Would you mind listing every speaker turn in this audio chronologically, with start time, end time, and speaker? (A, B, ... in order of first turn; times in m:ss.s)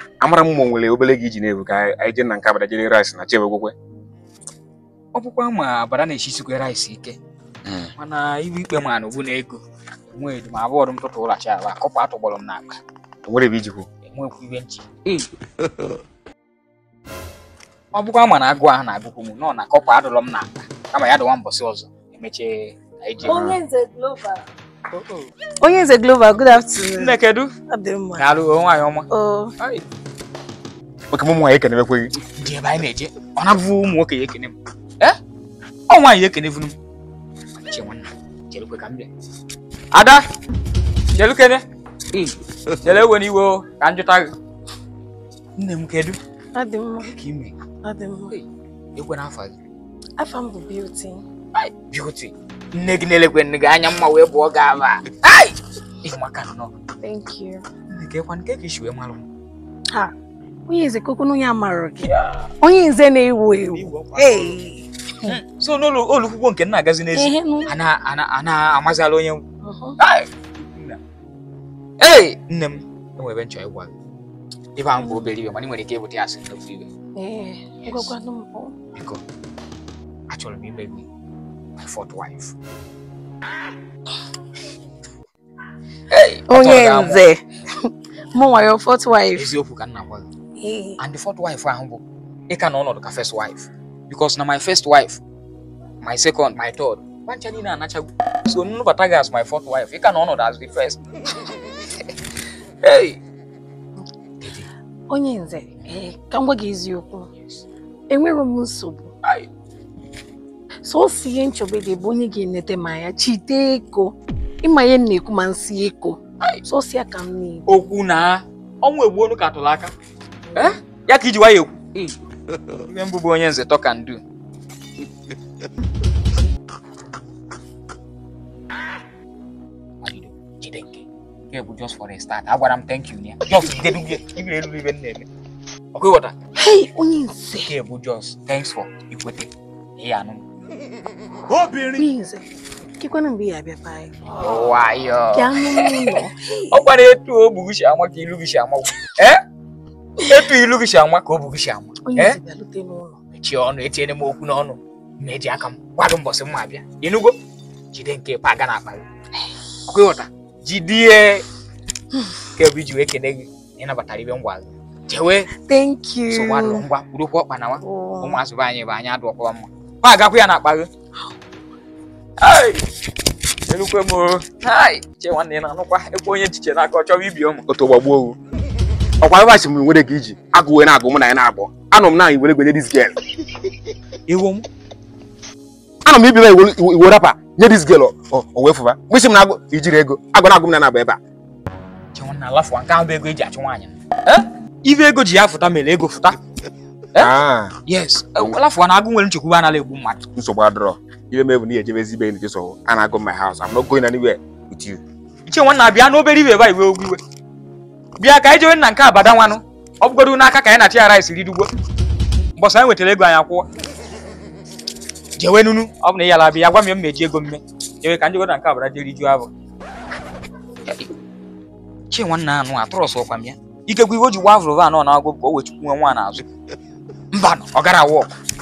0:00.2-0:03.8 A
0:05.1-0:07.2 B
0:07.6-0:07.9 A
0:07.9-0:12.8 B
0:13.2-0:13.9 A
0:14.0-0:14.9 B
0:17.9-0:23.5 B
0:23.2-0:24.4 C
0:23.3-0:23.6 A
0:25.0-0:25.2 B
0:25.6-0:27.2 C
0:26.9-0:27.5 B
0:27.7-0:28.2 C
0:28.2-0:29.1 B
0:29.1-0:29.5 C
0:31.1-0:32.1 A
0:32.4-0:35.2 B
0:35.9-0:36.8 B
0:37.6-0:39.1 B
0:39.9-0:40.2 B
0:41.2-0:41.6 B
0:42.8-0:44.3 B
0:45.6-0:46.2 B
0:46.6-0:47.2 C
0:47.1-0:47.6 B
0:47.8-0:48.3 C
0:48.3-0:49.6 B
0:50.2-0:51.2 C
0:51.6-0:56.7 B
0:57.0-0:57.7 C
0:57.9-0:59.3 B
1:00.7-1:02.1 C
1:02.0-1:02.5 B
1:02.6-1:05.4 C
1:03.6-1:04.6 B
1:05.2-1:09.4 B
1:07.2-1:07.7 C
1:09.6-1:10.0 C
1:10.0-1:11.0 B
1:12.0-1:13.9 B
1:14.8-1:16.9 B
1:15.0-1:15.3 C
1:17.2-1:18.8 C
1:17.8-1:18.1 B
1:19.0-1:19.2 B
1:20.3-1:21.1 B
1:21.8-1:22.6 B
1:26.1-1:27.2 B
1:26.5-1:29.5 C
1:29.3-1:30.3 B
1:30.6-1:31.0 C
1:31.0-1:35.2 B
1:36.0-1:41.0 B
1:42.8-1:43.2 B
1:44.4-1:44.7 B
1:45.1-1:47.3 C
1:48.1-1:49.1 C
1:50.8-1:57.6 C
1:57.7-1:59.9 B
2:00.5-2:02.1 B
2:02.7-2:04.2 B
2:10.0-2:15.3 B
2:15.9-2:16.4 B
2:16.6-2:17.7 C
2:17.6-2:20.4 B
2:21.5-2:22.0 B
2:21.9-2:22.4 C
2:23.0-2:24.3 C
2:24.3-2:29.4 B
2:25.3-2:26.8 C
2:30.2-2:32.4 B
2:32.1-2:33.2 C
2:33.3-2:37.4 B
2:37.9-2:39.1 B
2:39.9-2:41.4 B
2:42.5-2:45.5 B
2:45.6-2:46.8 C
2:46.3-2:50.9 B
2:47.8-2:48.4 C
2:52.4-2:52.8 B
2:53.7-2:57.6 B
2:57.7-2:58.4 A
2:59.2-3:03.2 A
3:04.3-3:04.7 B
3:06.0-3:11.2 A
3:12.1-3:16.4 B
3:17.2-3:17.8 A
3:17.9-3:20.2 B
3:20.4-3:25.0 A
3:25.5-3:27.2 B
3:28.2-3:31.7 B
3:32.6-3:33.7 B
3:35.4-3:39.5 B
3:42.1-3:46.4 B
3:47.3-3:48.3 B